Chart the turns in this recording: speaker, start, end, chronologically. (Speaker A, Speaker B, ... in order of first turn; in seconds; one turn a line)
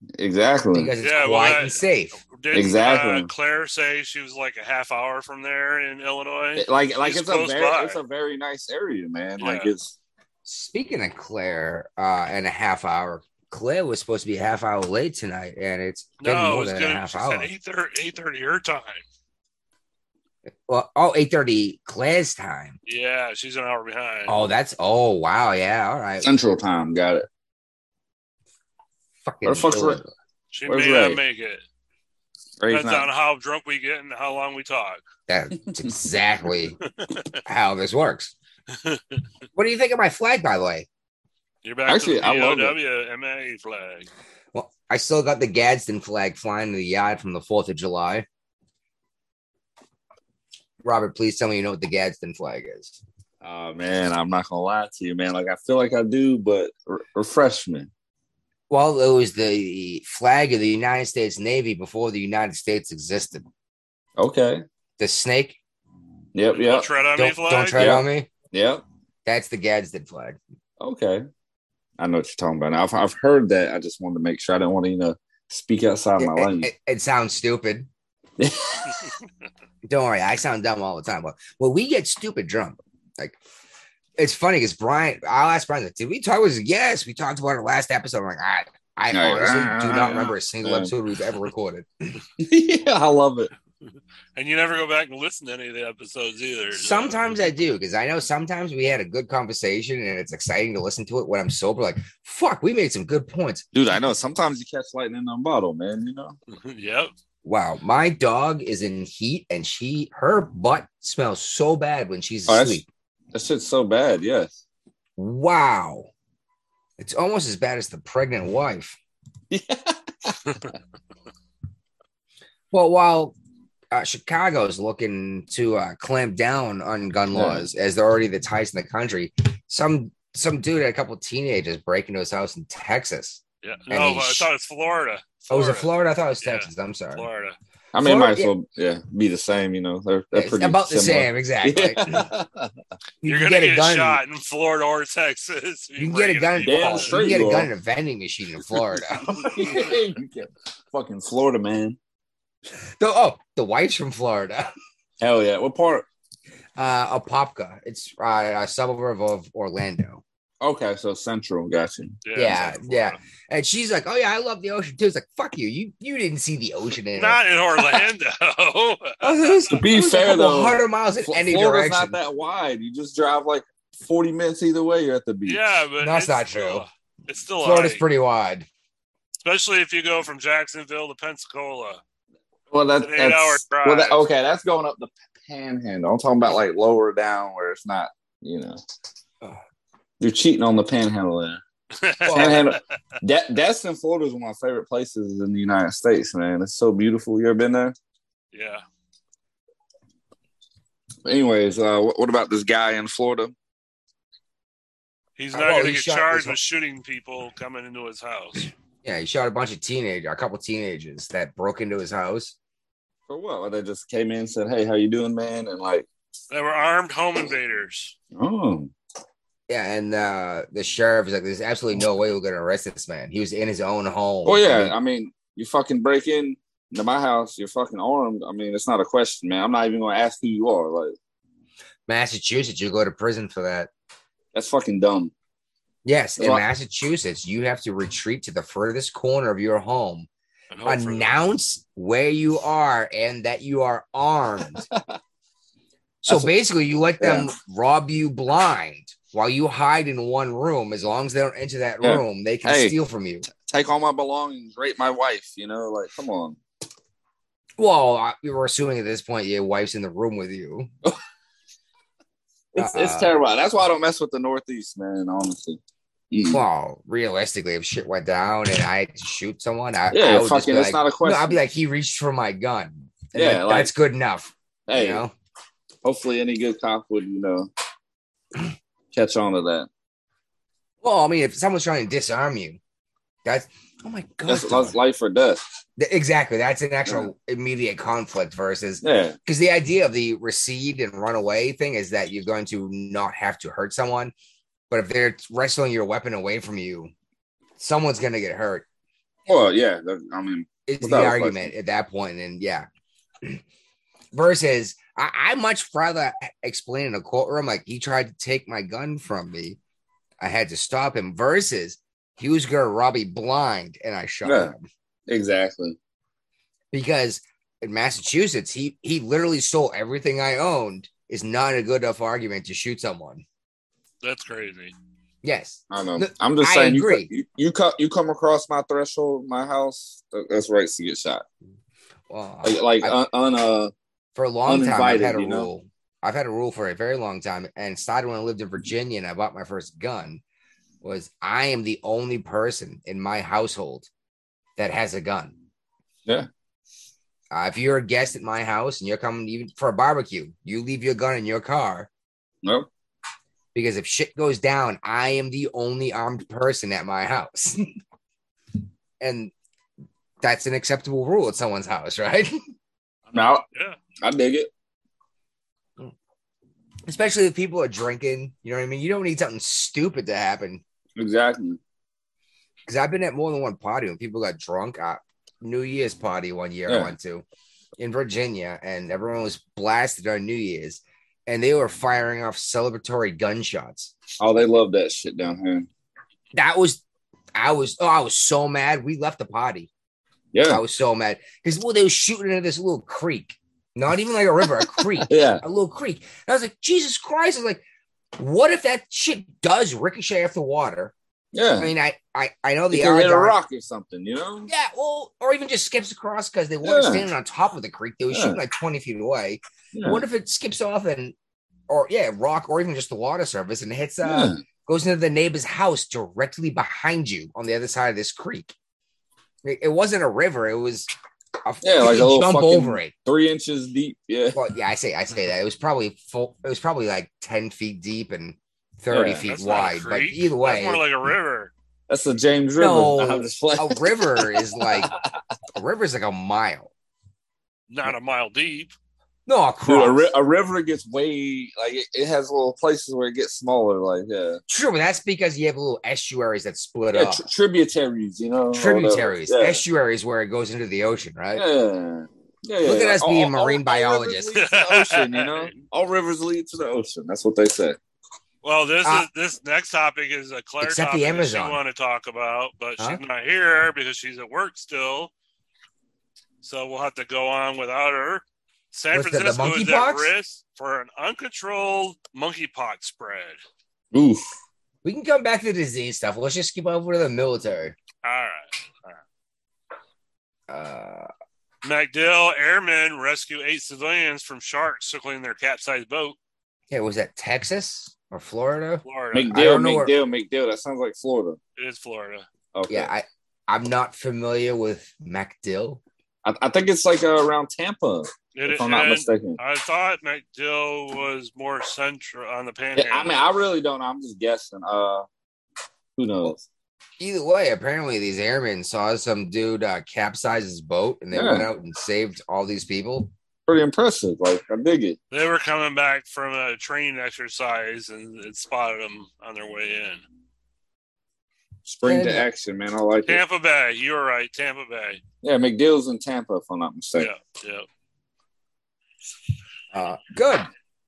Speaker A: 0.2-0.9
Speaker B: 0.7-2.2
Speaker C: 1.0-8.0
Speaker A: 2.5-3.3
Speaker A: 6.6-9.9
Speaker C: 9.4-9.7
Speaker B: 10.4-17.5
Speaker C: 16.2-19.0
Speaker B: 20.7-22.8
Speaker C: 22.9-24.4
Speaker B: 24.3-26.3
Speaker A: 26.2-27.3
Speaker B: 29.2-30.1
Speaker A: 29.4-30.0
Speaker C: 30.5-31.6
Speaker A: 30.6-31.2
Speaker A: 32.6-33.1
Speaker C: 32.7-35.0
Speaker B: 35.3-36.8
Speaker C: 37.0-37.3
Speaker B: 37.5-38.3
Speaker C: 38.8-39.2
Speaker B: 39.5-40.9
Speaker C: 41.6-44.1
Speaker A: 41.9-42.8
Speaker B: 44.5-48.3
Speaker B: 50.8-53.0
Speaker A: 53.4-57.9
Speaker B: 58.7-63.5
Speaker A: 64.2-64.6
Speaker B: 65.0-65.6
Speaker A: 66.3-66.9
Speaker C: 66.5-67.9
Speaker B: 67.2-68.3
Speaker A: 67.8-68.8
Speaker B: 69.2-70.4
Speaker A: 70.8-71.2
Speaker A: 72.0-76.7
Speaker B: 76.2-77.9
Speaker A: 78.4-79.1
Speaker B: 79.8-83.4
Speaker B: 84.2-92.1
Speaker A: 89.1-90.9
Speaker A: 92.4-93.5
Speaker C: 94.4-97.3
Speaker B: 96.7-103.7
Speaker A: 103.7-106.3
Speaker C: 106.5-107.1
Speaker B: 107.4-112.9
Speaker A: 112.5-112.8
Speaker A: 113.3-114.6
Speaker B: 115.2-116.1
Speaker B: 117.0-119.0
Speaker A: 119.5-120.4
Speaker B: 122.7-123.3
Speaker B: 123.9-134.5
Speaker A: 127.3-127.6
Speaker C: 133.6-135.9
Speaker B: 135.5-137.3
Speaker C: 136.4-137.6
Speaker A: 137.9-142.7
Speaker B: 138.0-138.5
Speaker B: 140.3-142.3
Speaker B: 143.2-144.2
Speaker C: 143.2-147.2
Speaker B: 146.0-150.0
Speaker A: 146.6-147.7
Speaker A: 149.2-152.0
Speaker B: 153.0-154.7
Speaker A: 155.2-156.1
Speaker B: 156.8-160.2
Speaker A: 160.6-162.2
Speaker C: 162.2-163.2
Speaker B: 162.3-167.4
Speaker C: 167.1-169.8
Speaker A: 169.2-175.6
Speaker B: 169.9-172.2
Speaker C: 175.5-178.0
Speaker B: 176.0-176.8
Speaker B: 177.6-178.7
Speaker C: 179.4-182.0
Speaker A: 182.7-188.8
Speaker C: 183.0-184.2
Speaker A: 190.2-191.6
Speaker C: 192.0-192.6
Speaker B: 192.3-192.6
Speaker A: 192.3-197.9
Speaker C: 198.5-198.8
Speaker A: 201.2-203.5
Speaker C: 205.4-208.7
Speaker B: 205.5-206.6
Speaker B: 209.0-212.6
Speaker A: 213.3-216.1
Speaker C: 216.5-218.1
Speaker A: 218.3-218.9
Speaker B: 219.7-224.9
Speaker A: 224.4-231.1
Speaker B: 232.1-233.9
Speaker A: 234.5-235.3
Speaker B: 236.1-240.3
Speaker C: 240.7-241.4
Speaker B: 240.9-244.9
Speaker B: 246.2-253.5
Speaker A: 246.3-246.5
Speaker A: 247.2-247.5
Speaker A: 252.0-252.9
Speaker A: 253.5-256.6
Speaker B: 257.8-260.9
Speaker A: 262.7-265.8
Speaker B: 262.8-263.3
Speaker A: 266.3-266.6
Speaker B: 266.5-275.3
Speaker A: 270.1-271.6
Speaker A: 273.3-273.9
Speaker A: 274.9-275.2
Speaker A: 276.0-277.7
Speaker A: 279.1-279.9
Speaker B: 281.0-282.8
Speaker B: 283.4-284.9
Speaker A: 284.5-285.6
Speaker B: 286.0-294.3
Speaker A: 289.0-289.4
Speaker B: 294.9-297.1
Speaker B: 297.8-298.9
Speaker A: 299.5-301.7
Speaker B: 300.9-302.9
Speaker B: 304.3-309.8
Speaker B: 310.4-314.9
Speaker A: 314.4-314.7
Speaker A: 315.3-316.0
Speaker B: 316.9-323.4
Speaker C: 324.2-324.9
Speaker B: 325.4-327.3
Speaker A: 325.9-331.4
Speaker B: 332.3-333.1
Speaker A: 332.6-333.9
Speaker B: 334.4-340.4
Speaker A: 334.7-335.7
Speaker B: 341.0-344.1
Speaker B: 344.8-345.5
Speaker B: 347.5-352.1
Speaker B: 353.7-357.8
Speaker B: 359.2-359.5
Speaker B: 360.4-362.6
Speaker A: 363.3-363.6
Speaker A: 364.2-364.7
Speaker B: 367.1-370.8
Speaker A: 371.2-371.8
Speaker B: 372.9-377.4
Speaker A: 376.9-377.1
Speaker B: 378.0-384.1
Speaker A: 384.4-385.9
Speaker B: 386.5-387.0
Speaker B: 387.6-389.9
Speaker A: 390.5-390.8
Speaker B: 390.7-397.8
Speaker A: 395.2-395.6
Speaker B: 398.4-401.1
Speaker A: 401.5-401.9
Speaker B: 401.8-403.6
Speaker A: 402.9-404.7
Speaker B: 404.7-411.4
Speaker A: 406.8-407.3
Speaker A: 408.3-408.6
Speaker A: 409.9-410.2
Speaker B: 411.9-418.7
Speaker A: 414.2-414.6
Speaker B: 419.6-421.1
Speaker B: 421.6-423.1
Speaker A: 421.8-424.6
Speaker B: 424.5-431.0
Speaker A: 429.1-429.4
Speaker C: 429.5-431.7
Speaker A: 432.1-435.1
Speaker B: 432.8-435.1
Speaker B: 435.7-436.9
Speaker C: 437.9-438.9
Speaker B: 439.5-440.2
Speaker A: 439.9-444.6
Speaker B: 444.7-447.4
Speaker A: 447.1-449.8
Speaker B: 448.7-451.7
Speaker A: 451.6-458.0
Speaker B: 452.8-454.6
Speaker C: 454.6-455.7
Speaker C: 458.6-465.3
Speaker B: 460.8-461.8
Speaker C: 466.6-473.6
Speaker B: 469.1-470.3
Speaker A: 474.1-474.4
Speaker B: 475.0-477.9
Speaker C: 478.2-479.2
Speaker B: 480.7-481.3
Speaker C: 481.8-486.4
Speaker B: 486.9-490.1
Speaker C: 489.1-489.5
Speaker A: 489.3-491.6
Speaker C: 491.8-492.4
Speaker A: 492.7-493.1
Speaker B: 492.9-496.0
Speaker A: 496.4-499.6
Speaker C: 498.6-503.4
Speaker A: 502.9-505.2
Speaker A: 506.2-506.6
Speaker B: 507.2-513.3
Speaker A: 511.3-511.7
Speaker A: 513.7-515.2
Speaker C: 515.3-520.2
Speaker A: 521.9-523.4
Speaker B: 522.0-522.5
Speaker C: 523.3-525.2
Speaker A: 525.4-527.3
Speaker C: 527.2-527.9
Speaker B: 529.9-530.7